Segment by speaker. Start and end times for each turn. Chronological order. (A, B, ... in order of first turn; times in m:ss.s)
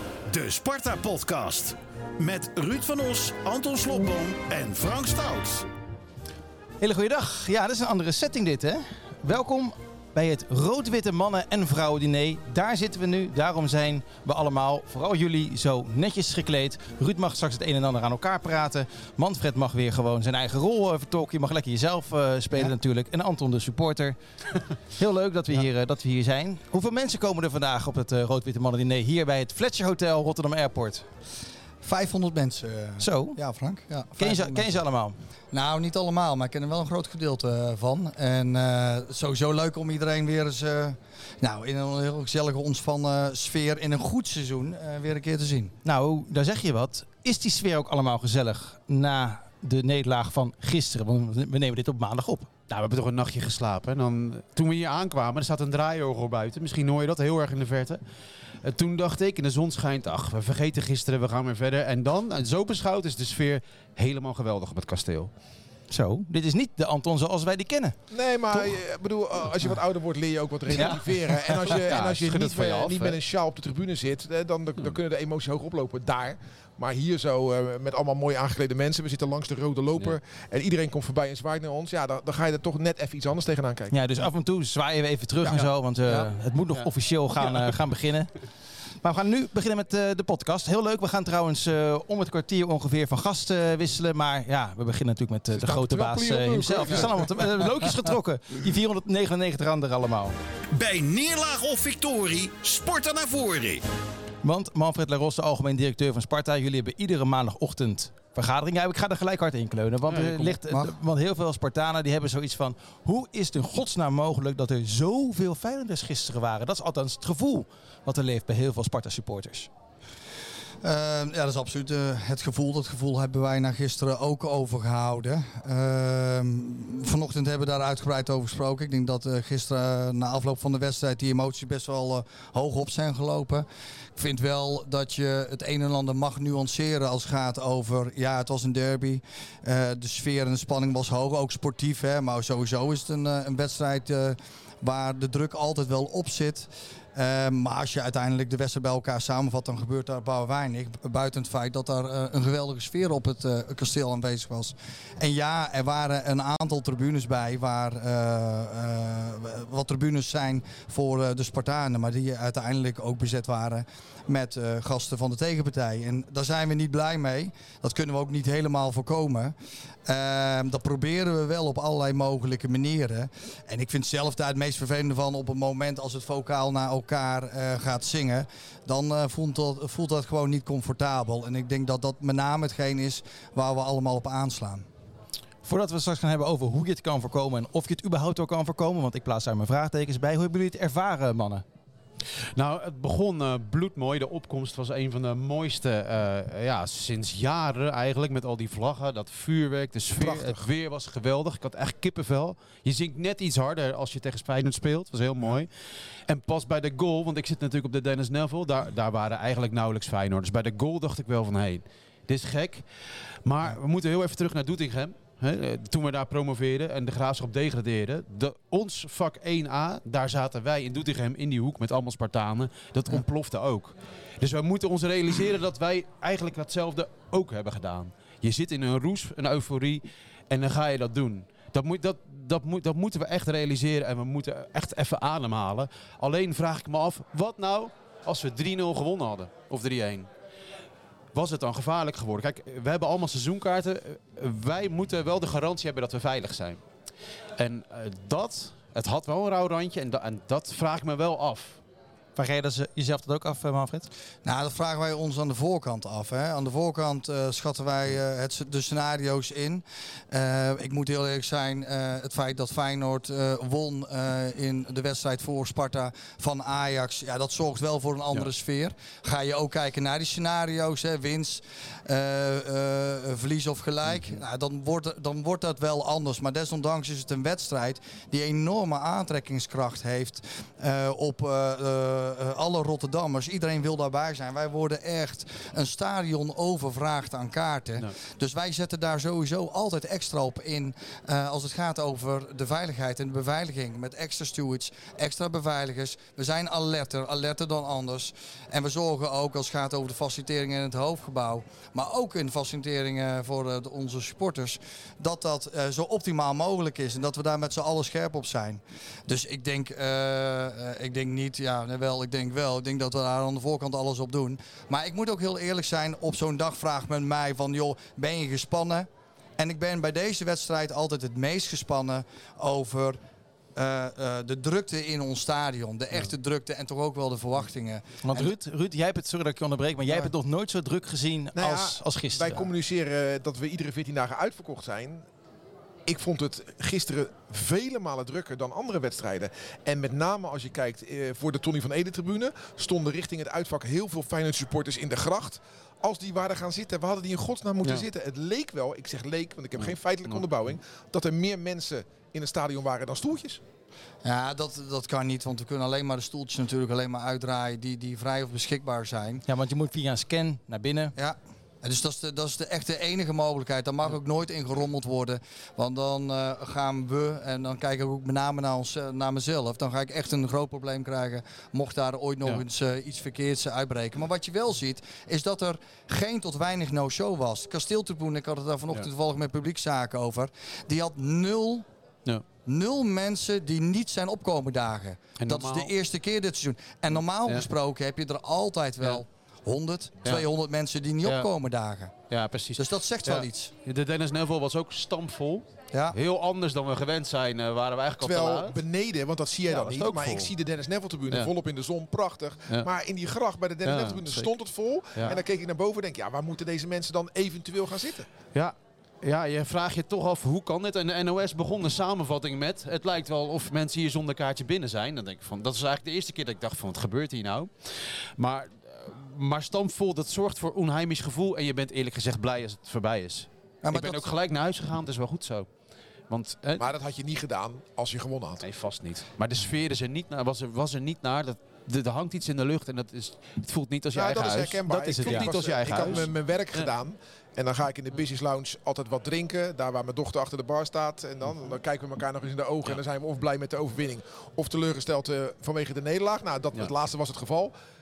0:00.3-0:05.7 A
0:06.8-0:24.2 B
0:24.9-0:31.1 B
0:31.8-0:34.8 C
0:33.0-0:33.4 B
0:34.2-0:35.2 B
0:35.5-0:45.7 C
0:45.8-0:52.5 B
0:52.7-0:58.0 D
0:58.6-1:05.3 D
1:05.9-1:08.0 B
1:08.1-1:24.0 E
1:10.7-1:11.7 B
1:11.6-1:13.2 D
1:23.9-1:28.4 B
1:26.7-1:27.8 D
1:29.0-1:40.3 B
1:35.5-1:37.6 E
1:40.7-1:43.8 A
1:44.4-1:59.7 B
1:50.1-1:50.6 D
2:00.8-2:49.5 C
2:50.0-3:04.8 C
3:05.6-3:11.6 B
3:12.5-4:00.3 D
3:20.1-3:20.7 E
4:01.3-4:06.8 D
4:07.6-4:11.8 D
4:12.4-4:14.1 B
4:14.4-5:23.2 C
4:34.1-4:34.4 D
5:23.8-5:28.5 C
5:28.2-5:32.7 B
5:31.5-5:35.2 E
5:36.0-5:53.6 E
5:49.8-5:50.4 D
5:54.2-5:59.4 C
5:59.5-6:01.1 B
6:01.2-6:21.8 C
6:22.6-6:32.1 C
6:25.4-6:25.9 D
6:31.2-6:31.5 D
6:32.3-6:38.8 D
6:32.8-6:33.7 C
6:35.9-6:36.2 C
6:38.2-6:48.3 E
6:39.7-6:40.5 D
6:43.8-6:44.5 D
6:45.1-6:45.4 D
6:48.5-7:05.7 D
7:03.8-7:04.3 C
7:06.3-7:06.9 D
7:06.8-7:08.6 E
7:08.6-7:16.9 D
7:14.1-7:27.7 E
7:14.9-7:16.3 B